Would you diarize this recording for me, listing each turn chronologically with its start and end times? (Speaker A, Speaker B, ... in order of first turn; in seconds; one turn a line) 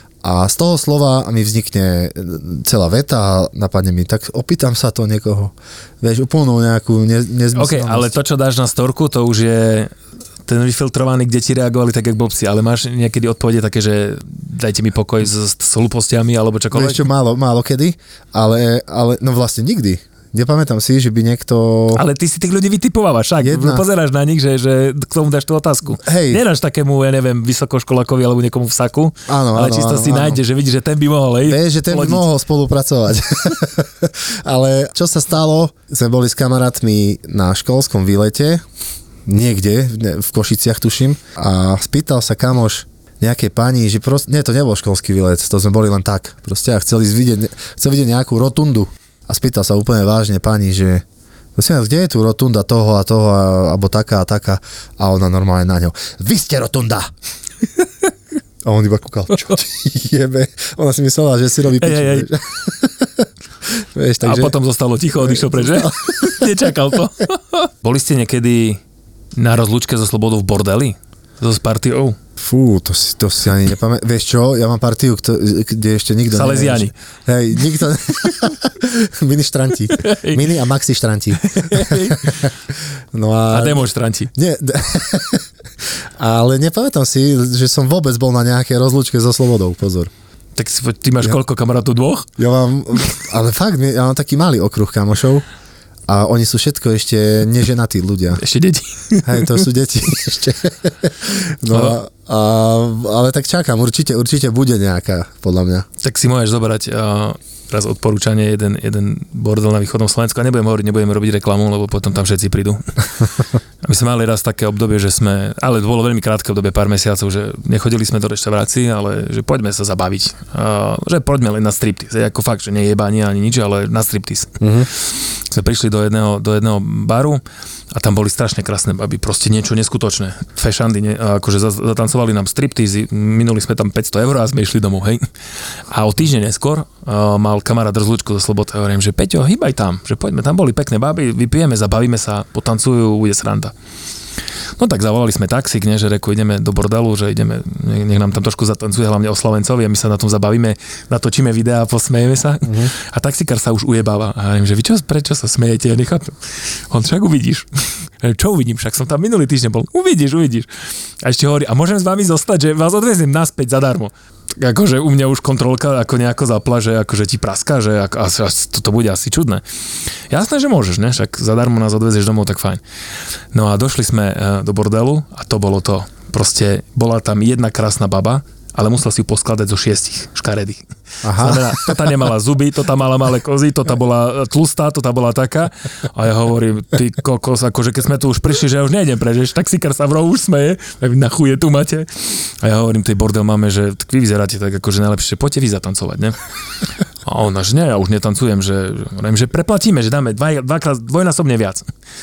Speaker A: 0.2-8.1
Speaker B: 7.5-9.9
Speaker B: 10.4-17.1
Speaker A: 16.7-22.0
Speaker B: 21.9-32.3
Speaker A: 23.4-23.8
Speaker A: 26.0-26.4
Speaker A: 29.3-30.4
Speaker A: 31.4-38.6
Speaker A: 39.3-51.0
Speaker A: 51.5-57.1
Speaker A: 58.6-64.5
Speaker B: 61.8-62.3
Speaker B: 64.2-68.8
Speaker A: 65.2-66.5
Speaker B: 69.3-72.2
Speaker A: 72.4-82.5
Speaker B: 76.3-76.9
Speaker B: 79.9-80.6
Speaker B: 81.4-82.5
Speaker A: 83.1-85.4
Speaker B: 83.5-84.3
Speaker A: 86.2-90.1
Speaker B: 90.5-92.3
Speaker A: 92.4-95.4
Speaker A: 96.1-98.4
Speaker B: 98.3-99.6
Speaker A: 99.2-105.8
Speaker B: 101.7-102.0
Speaker B: 106.0-112.9
Speaker B: 113.8-135.2
Speaker A: 124.6-124.9
Speaker B: 135.9-143.7
Speaker B: 144.8-169.6
Speaker A: 152.6-152.9
Speaker B: 170.3-172.8
Speaker B: 173.5-196.4
Speaker A: 181.2-181.9
Speaker B: 197.2-201.8